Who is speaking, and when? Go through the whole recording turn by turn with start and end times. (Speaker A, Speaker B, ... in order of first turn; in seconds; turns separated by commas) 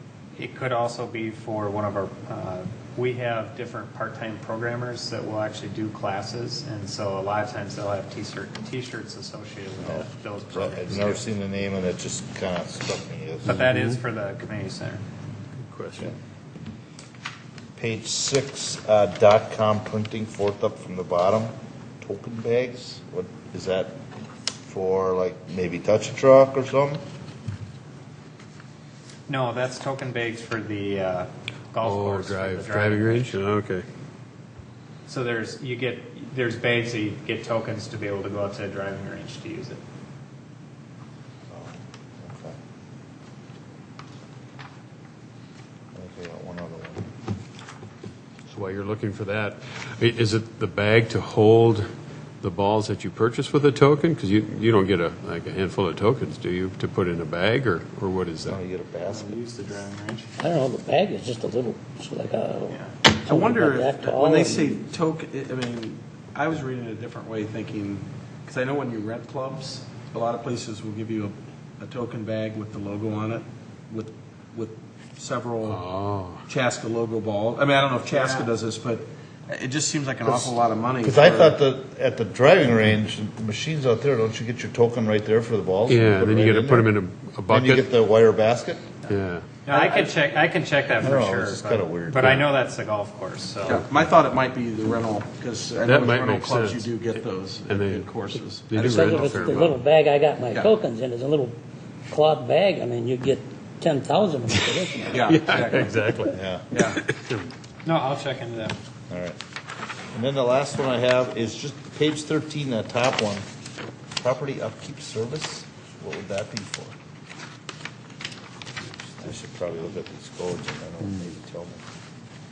Speaker A: 0.3-11.2, Speaker B: 9.8-13.6, Speaker A: 13.5-15.0, Speaker C: 13.5-13.9, Speaker C: 15.6-16.1, Speaker B: 17.8-23.9, Speaker B: 24.7-27.0, Speaker A: 29.3-33.4, Speaker C: 31.8-33.9, Speaker A: 35.1-39.8, Speaker B: 41.5-42.6, Speaker B: 45.9-47.1, Speaker C: 48.5-58.6, Speaker B: 58.5-59.4, Speaker A: 59.1-60.3, Speaker D: 60.4-64.8, Speaker A: 62.7-63.0, Speaker E: 63.2-75.9, Speaker C: 75.7-76.4, Speaker E: 76.5-81.6, Speaker B: 80.2-80.5, Speaker B: 81.0-86.9, Speaker C: 85.9-87.9, Speaker B: 87.5-88.8, Speaker C: 89.1-89.5, Speaker A: 89.7-93.8, Speaker B: 91.0-92.5, Speaker E: 93.7-99.7, Speaker C: 95.8-96.9, Speaker C: 97.7-98.1, Speaker C: 98.7-99.8, Speaker D: 98.8-101.6, Speaker D: 102.1-105.7, Speaker E: 105.1-106.1, Speaker C: 105.3-106.4, Speaker B: 106.3-106.6, Speaker E: 106.7-107.0, Speaker C: 106.9-107.5, Speaker A: 107.8-108.8, Speaker B: 109.1-109.4, Speaker B: 110.1-113.5, Speaker B: 114.2-117.0, Speaker B: 119.2-121.8